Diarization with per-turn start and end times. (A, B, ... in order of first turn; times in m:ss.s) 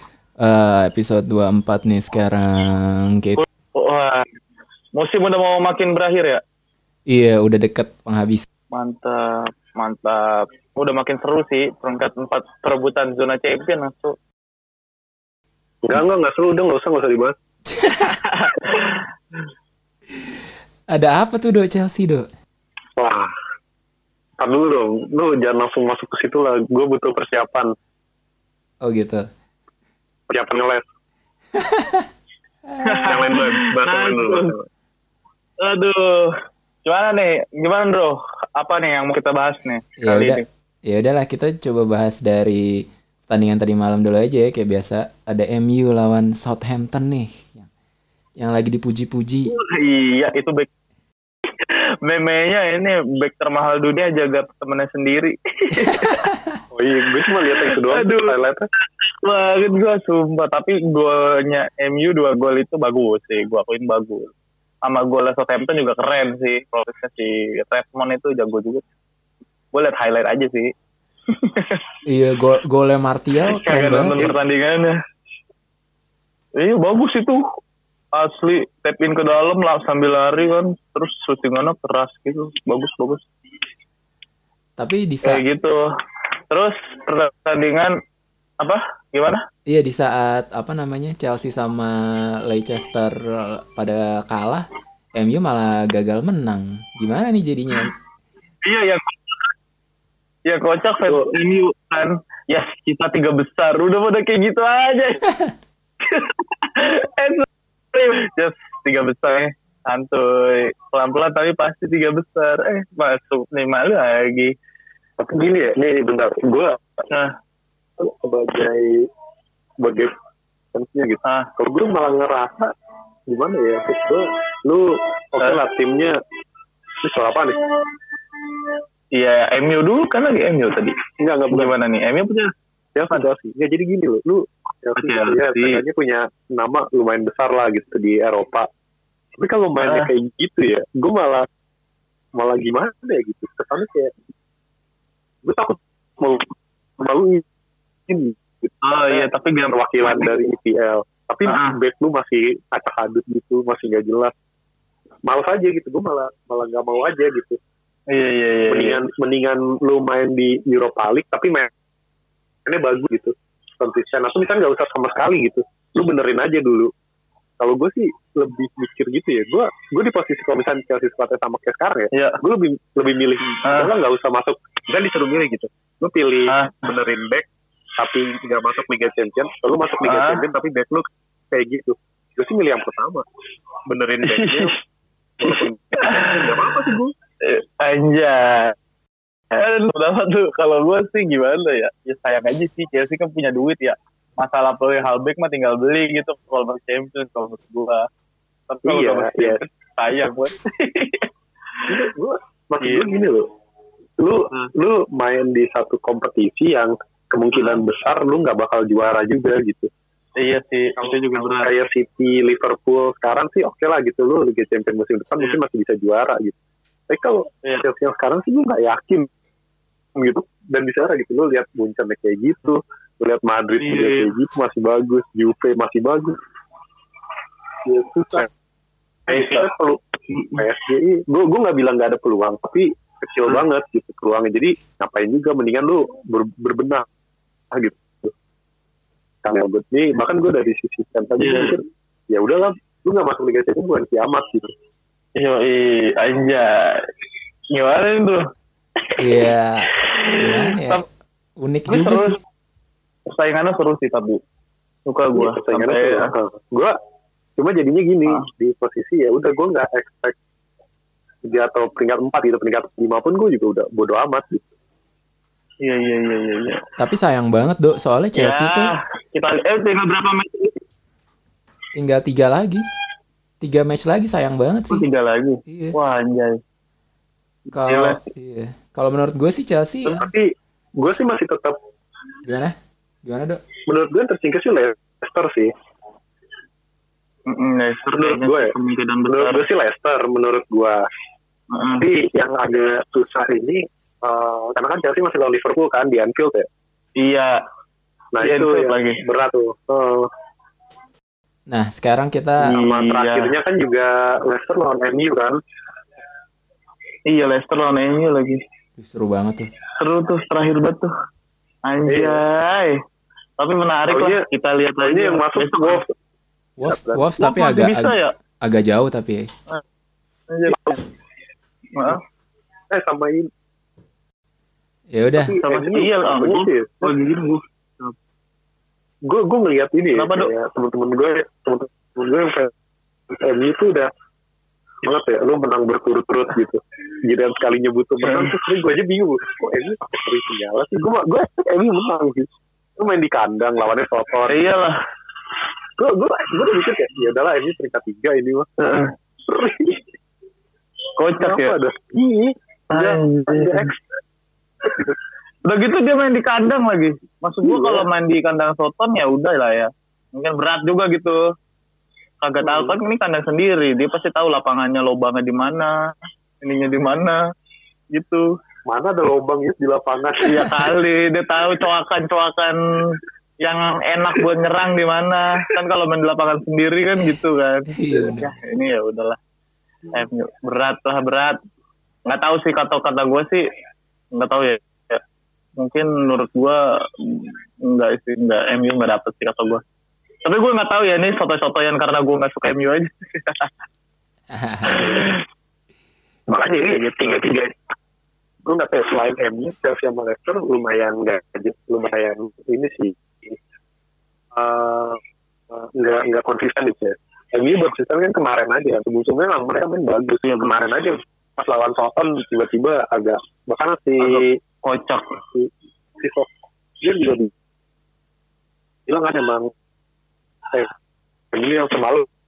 0:00.4-0:03.4 A
0:03.4-0:04.3 B
0:05.0-0:06.4 B
0:07.1-0:08.5 A
0:08.7-0:14.2 B
0:15.8-0:17.4 C
0:17.7-0:18.2 A
0:17.8-0:19.0 B
0:20.9-0:22.3 A
0:23.0-0:23.3 C
0:24.4-0:27.7 C
0:28.8-0:29.3 A
0:30.3-0:30.8 C
0:31.6-0:32.1 A
0:32.7-0:33.2 A
0:32.8-0:34.5 B
0:33.1-0:34.6 C
0:35.6-0:40.5 B
0:40.0-0:47.7 A
0:48.4-0:49.6 A
0:49.5-0:50.7 B
0:51.6-0:56.3 B
0:55.8-0:56.4 A
0:56.7-0:58.7 C
0:57.7-0:58.3 B
0:59.0-1:04.3 B
1:04.8-1:08.8 B
1:09.7-1:10.7 B
1:11.4-1:11.8 B
1:12.1-1:14.3 A
1:13.5-1:15.0 B
1:16.6-1:17.4 B
1:18.1-1:23.2 B
1:24.8-1:25.4 A
1:25.2-1:25.8 B
1:26.5-1:28.0 B
1:28.6-1:29.4 B
1:29.7-1:37.9 A
1:38.6-1:39.5 B
1:40.5-1:45.3 B
1:46.0-1:54.5 B
1:55.2-1:56.8 C
1:57.1-1:57.4 B
1:58.0-1:59.0 C
1:59.8-2:00.1 C
2:00.7-2:02.7 C
2:01.2-2:01.5 B
2:03.3-2:06.2 C
2:07.0-2:07.6 C
2:09.1-2:11.0 B
2:11.2-2:11.7 C
2:11.5-2:12.5 B
2:13.0-2:18.7 C
2:15.0-2:15.8 B
2:19.4-2:21.5 C
2:19.8-2:20.1 B
2:22.4-2:24.1 C
2:25.4-2:26.5 C
2:27.0-2:27.4 C
2:28.1-2:34.3 C
2:28.8-2:30.4 B
2:31.5-2:31.8 B
2:35.3-2:37.6 C
2:38.1-2:39.0 B
2:38.7-2:41.7 C
2:42.6-2:46.9 C
2:47.6-2:57.5 C
2:52.1-2:52.4 B
2:53.6-2:54.0 B
2:56.5-2:56.9 B
2:58.0-3:03.2 C
3:00.0-3:00.4 B
3:03.9-3:04.8 C
3:04.2-3:04.8 B
3:05.4-3:07.1 C
3:05.4-3:06.9 B
3:07.4-3:08.8 B
3:09.5-3:18.1 B
3:18.7-3:21.3 B
3:18.8-3:19.6 C
3:21.9-3:23.5 C
3:22.8-3:23.1 B
3:24.2-3:29.9 C
3:27.5-3:27.8 B
3:30.4-3:31.7 B
3:31.0-3:36.6 C
3:37.1-3:39.3 C
3:40.2-3:46.4 C
3:43.8-3:44.3 B
3:47.8-3:48.5 C
3:49.3-3:57.0 C
3:49.3-3:49.7 B
3:50.3-3:50.6 B
3:57.7-3:58.3 C
3:59.4-4:04.7 C
4:01.4-4:01.8 B
4:05.4-4:07.1 B
4:07.7-4:08.5 B
4:09.2-4:11.1 A
4:10.0-4:11.0 B
4:11.6-4:12.4 A
4:11.9-4:12.4 B
4:13.3-4:14.4 B
4:15.1-4:16.3 B
4:15.4-4:17.0 C
4:17.6-4:20.4 C
4:21.4-4:24.7 C
4:25.8-4:26.8 B
4:27.0-4:28.9 A
4:28.4-4:30.8 B
4:31.9-4:32.8 A
4:33.6-4:35.1 A
4:34.9-4:36.6 B
4:35.7-4:36.0 A
4:37.7-4:40.3 A
4:37.9-4:38.2 B
4:40.1-4:40.4 C
4:41.0-4:41.8 C
4:42.4-4:43.6 A
4:43.9-4:45.7 C
4:47.5-4:49.6 B
4:48.1-4:48.7 C
4:49.3-4:51.0 C
4:51.7-4:52.1 B
4:52.0-4:56.7 C
4:57.2-4:57.6 B
4:58.3-5:00.3 C
4:58.4-4:59.2 B
5:01.7-5:02.8 A
5:02.6-5:05.6 C
5:02.7-5:03.6 B
5:07.3-5:08.6 B
5:09.0-5:09.7 A
5:10.0-5:11.1 B
5:11.9-5:13.0 B
5:12.1-5:12.4 C
5:13.6-5:16.0 B
5:14.1-5:14.4 C
5:15.0-5:16.1 C
5:16.8-5:19.5 A
5:16.8-5:17.2 C
5:17.4-5:18.3 B
5:20.5-5:21.0 B
5:20.7-5:21.0 C
5:22.0-5:22.2 B
5:22.9-5:23.5 C
5:25.1-5:25.6 A
5:25.3-5:27.1 C
5:25.6-5:28.1 B
5:29.3-5:32.7 C
5:30.2-5:30.5 B
5:33.3-5:34.1 C
5:35.0-5:44.6 C
5:38.2-5:38.5 B
5:44.5-5:45.0 B
5:46.0-5:48.7 C
5:48.8-5:49.1 B
5:49.5-5:50.1 C
5:51.2-5:51.8 B
5:51.4-5:53.9 C
5:52.9-5:54.0 B
5:54.8-5:55.2 C
5:55.7-6:01.4 B
5:57.6-5:58.1 C
6:02.4-6:05.9 B
6:02.6-6:03.0 C
6:06.6-6:07.4 B
6:08.1-6:08.4 B
6:08.9-6:10.9 C
6:10.4-6:19.4 B
6:17.9-6:18.6 A
6:20.1-6:21.6 B
6:22.3-6:23.6 B
6:24.4-6:25.2 B
6:25.8-6:29.8 B
6:30.4-6:33.7 B
6:34.5-6:35.3 A
6:34.9-6:35.4 B
6:36.5-6:37.8 C
6:37.0-6:37.4 B
6:38.6-6:43.6 C
6:44.5-6:45.2 C
6:45.7-6:54.6 C
6:50.5-6:50.8 B
6:54.2-6:55.4 B
6:55.5-6:57.5 C
6:59.1-6:59.7 C
7:01.5-7:02.3 C